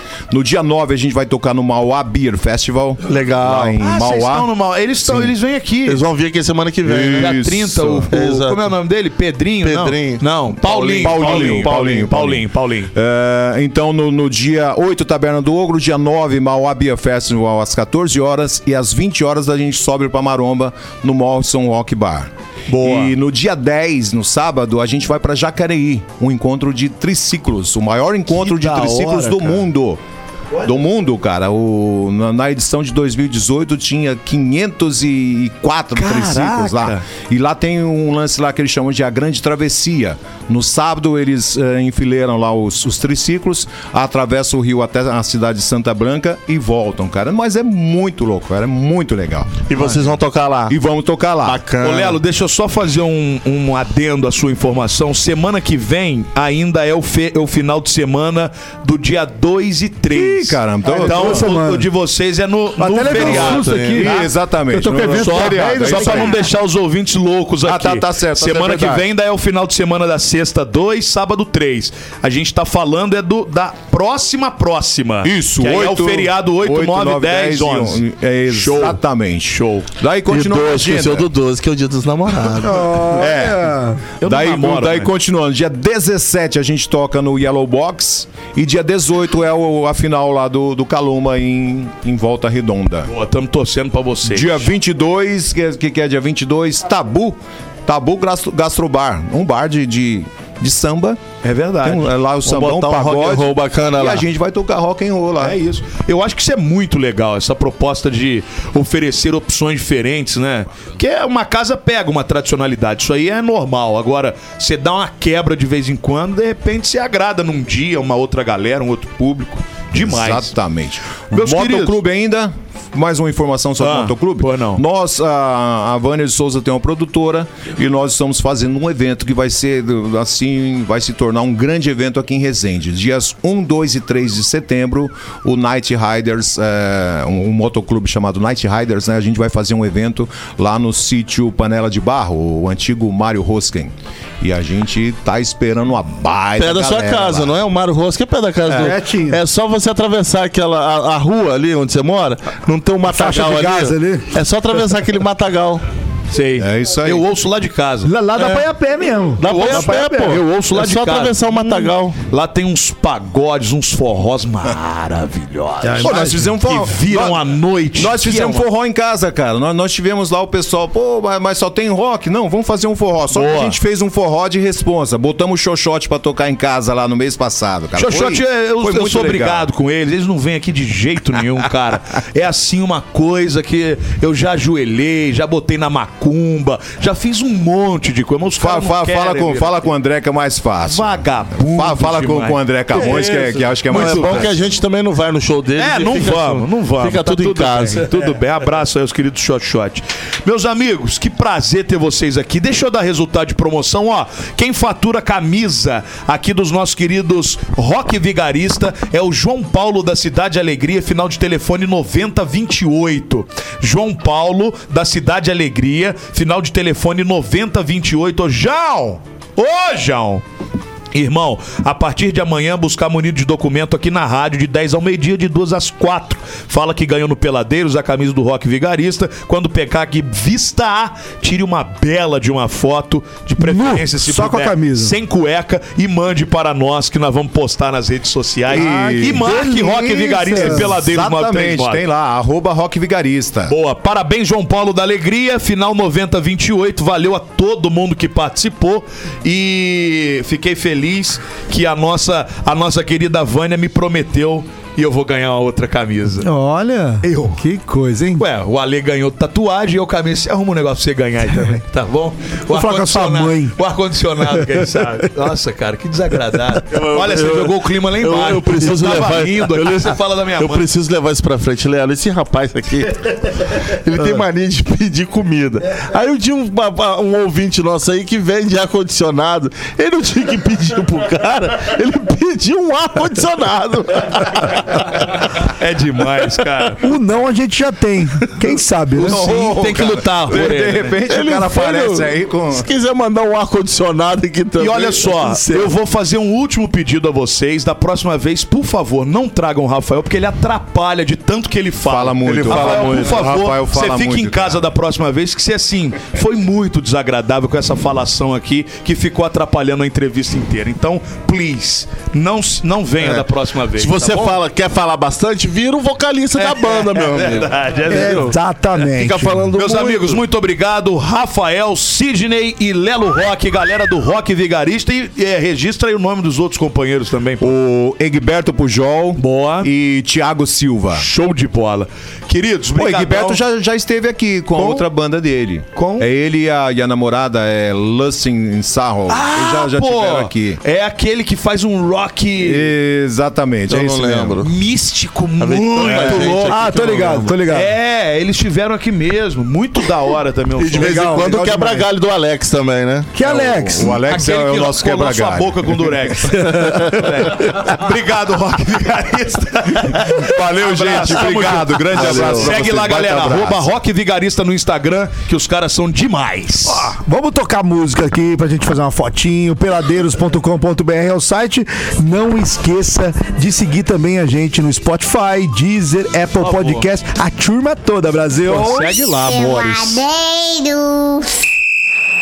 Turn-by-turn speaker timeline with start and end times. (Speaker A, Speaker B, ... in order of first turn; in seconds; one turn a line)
Speaker A: 0.3-4.5
Speaker B: 3.0-3.8
Speaker C: 3.8-6.0
Speaker B: 5.8-7.5
Speaker A: 6.8-8.1
Speaker C: 7.1-12.9
Speaker B: 8.1-8.7
Speaker B: 9.6-12.2
Speaker A: 10.7-30.0
Speaker C: 22.7-23.1
Speaker C: 28.3-29.6
Speaker A: 30.6-50.1
Speaker C: 36.0-37.0
Speaker B: 49.7-50.8
Speaker A: 50.7-51.6
Speaker B: 51.4-52.2
Speaker C: 51.8-63.8
Speaker A: 60.1-61.5
Speaker D: 60.8-61.9
Speaker D: 62.8-66.4
Speaker B: 63.1-64.2
Speaker A: 63.9-66.4
Speaker C: 65.2-79.9
Speaker A: 67.6-69.0
Speaker A: 75.2-81.3
Speaker B: 80.3-83.2
Speaker D: 82.5-84.0
Speaker A: 83.2-93.1
Speaker C: 84.2-85.1
Speaker C: 93.1-94.7
Speaker A: 94.2-101.2
Speaker C: 101.4-102.1
Speaker A: 101.8-105.6
Speaker B: 102.4-104.2
Speaker C: 105.4-120.5
Speaker A: 119.9-147.5
Speaker C: 121.3-122.0
Speaker C: 123.8-124.8
Speaker B: 146.6-155.8
Speaker D: 148.8-149.4
Speaker D: 153.1-154.3
Speaker C: 156.3-158.6
Speaker A: 156.6-157.2
Speaker D: 158.0-160.4
Speaker B: 159.4-162.2
Speaker C: 159.4-168.7
Speaker D: 165.8-166.5
Speaker A: 166.0-179.7
Speaker C: 173.3-173.8
Speaker C: 178.0-189.8
Speaker A: 188.6-194.5
Speaker C: 190.9-194.5
Speaker B: 193.9-198.1
Speaker C: 195.8-220.4
Speaker C: 221.1-242.0
Speaker D: 233.6-235.1
Speaker D: 238.7-240.9
Speaker A: 238.7-243.7
Speaker C: 243.7-256.5
Speaker D: 256.4-258.4
Speaker C: 257.2-257.6
Speaker C: 258.4-270.9
Speaker D: 262.7-263.8
Speaker D: 264.6-264.8
Speaker B: 266.9-285.2
Speaker C: 285.5-287.0
Speaker D: 287.0-289.4
Speaker C: 289.1-291.2
Speaker A: 289.1-292.9
Speaker B: 291.3-295.4
Speaker C: 294.8-314.6
Speaker D: 295.4-295.9
Speaker A: 302.0-304.9
Speaker B: 302.4-303.4
Speaker B: 313.2-318.5
Speaker C: 316.6-318.6
Speaker D: 318.1-319.7
Speaker B: 319.1-320.4
Speaker C: 319.7-327.7
Speaker A: 327.6-331.3
Speaker C: 329.4-329.9
Speaker C: 331.1-333.6
Speaker A: 332.9-340.8
Speaker C: 334.8-335.0
Speaker C: 335.9-336.3
Speaker C: 339.3-342.9
Speaker A: 342.6-344.6
Speaker B: 343.9-344.7
Speaker C: 344.6-346.9
Speaker B: 345.6-347.6
Speaker A: 346.2-346.7
Speaker D: 346.7-347.9
Speaker C: 347.6-351.3
Speaker B: 350.8-353.3
Speaker D: 351.0-352.1
Speaker D: 353.3-354.2
Speaker A: 353.5-356.1
Speaker C: 354.3-367.1
Speaker A: 360.2-363.9
Speaker B: 362.1-362.7
Speaker D: 366.9-379.1
Speaker C: 376.6-377.1
Speaker C: 378.6-380.2
Speaker E: 379.3-381.6